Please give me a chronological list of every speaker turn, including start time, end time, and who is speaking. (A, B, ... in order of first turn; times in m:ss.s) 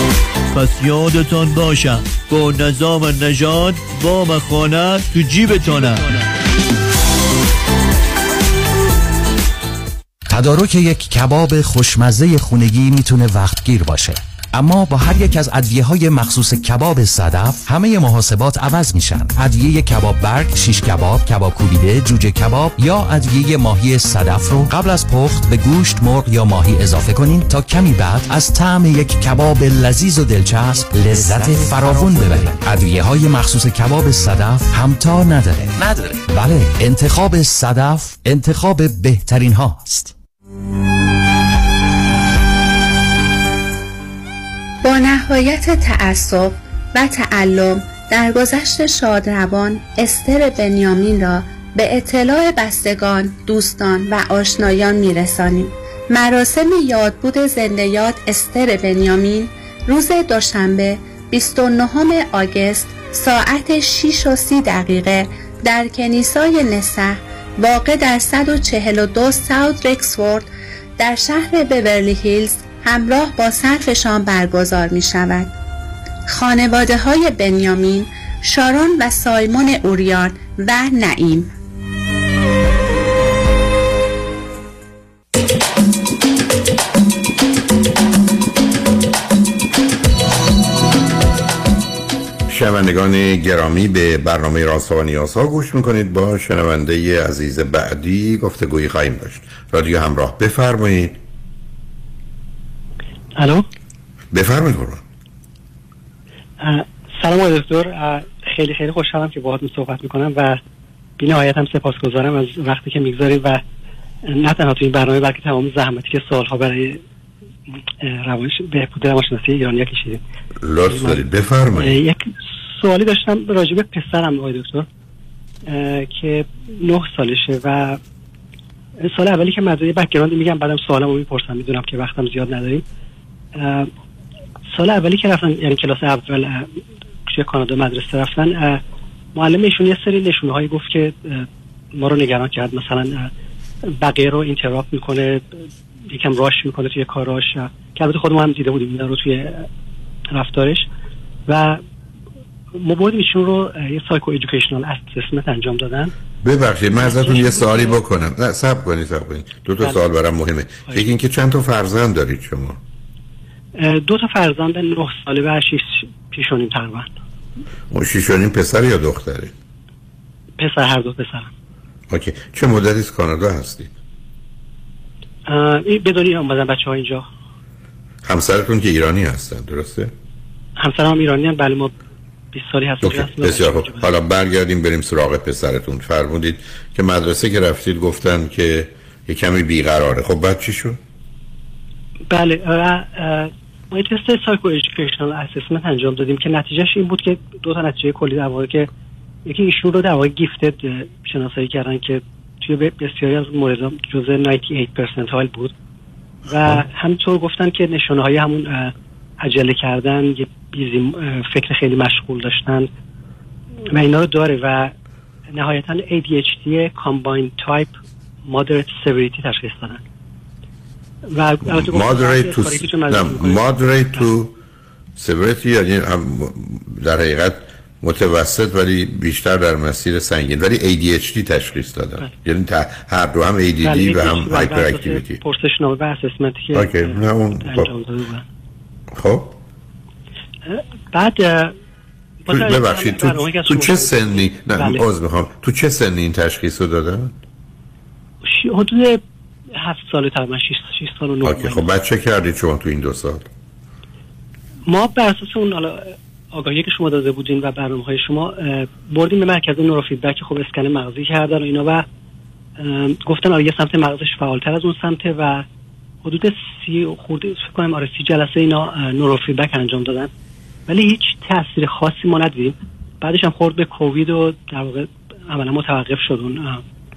0:00.5-0:06.0 A
0:10.5-0:17.4 B
0:18.0-0:24.5 B
0:25.0-0:27.6 B
0:28.4-0:29.4 B
0:30.9-0:33.8 B
0:34.8-0:40.0 B
0:44.8-1:15.5 C
1:16.3-1:21.5 C
1:32.5-1:41.2 D
1:43.4-1:43.6 E
1:44.3-1:45.0 D
1:46.6-1:50.6 E
1:51.2-1:53.6 E
1:54.3-1:57.0 E
1:58.0-2:00.2 E
2:00.6-2:01.9 D
2:00.8-2:01.2 E
2:01.7-2:04.9 E
2:05.7-2:08.0 E
2:09.0-2:12.8 E
2:13.6-2:13.9 E
2:14.7-2:16.7 E
2:17.3-2:18.8 E
2:19.3-2:23.3 E
2:24.0-2:25.5 E
2:26.1-2:29.7 E
2:30.3-2:30.8 E
2:31.5-2:31.8 E
2:32.8-2:36.1 E
2:36.4-2:42.8 D
2:36.9-2:38.0 E
2:43.8-2:47.1 E
2:47.9-2:49.5 D
2:50.6-2:51.5 E
2:52.1-2:53.9 D
2:55.5-2:57.2 E
2:58.2-3:00.1 D
3:00.8-3:01.9 E
3:02.5-3:04.1 E
3:03.0-3:11.0 D
3:12.3-3:18.9 E
3:19.5-3:25.7 E
3:26.5-3:32.9 E
3:33.9-3:34.9 E
3:35.5-3:37.9 E
3:38.5-3:40.0 E
3:41.3-3:44.3 E
3:41.8-3:44.5 D
3:45.2-3:55.4 D
3:53.8-3:58.4 E
3:56.8-3:57.9 D
3:59.1-3:59.6 D
4:00.7-4:01.7 E
4:02.4-4:05.0 E
4:02.5-4:07.4 D
4:08.4-4:09.2 E
4:09.8-4:11.9 E
4:11.4-4:13.5 D
4:14.9-4:22.0 E
4:22.8-4:25.6 E
4:26.2-4:30.3 E
4:30.9-4:36.8 E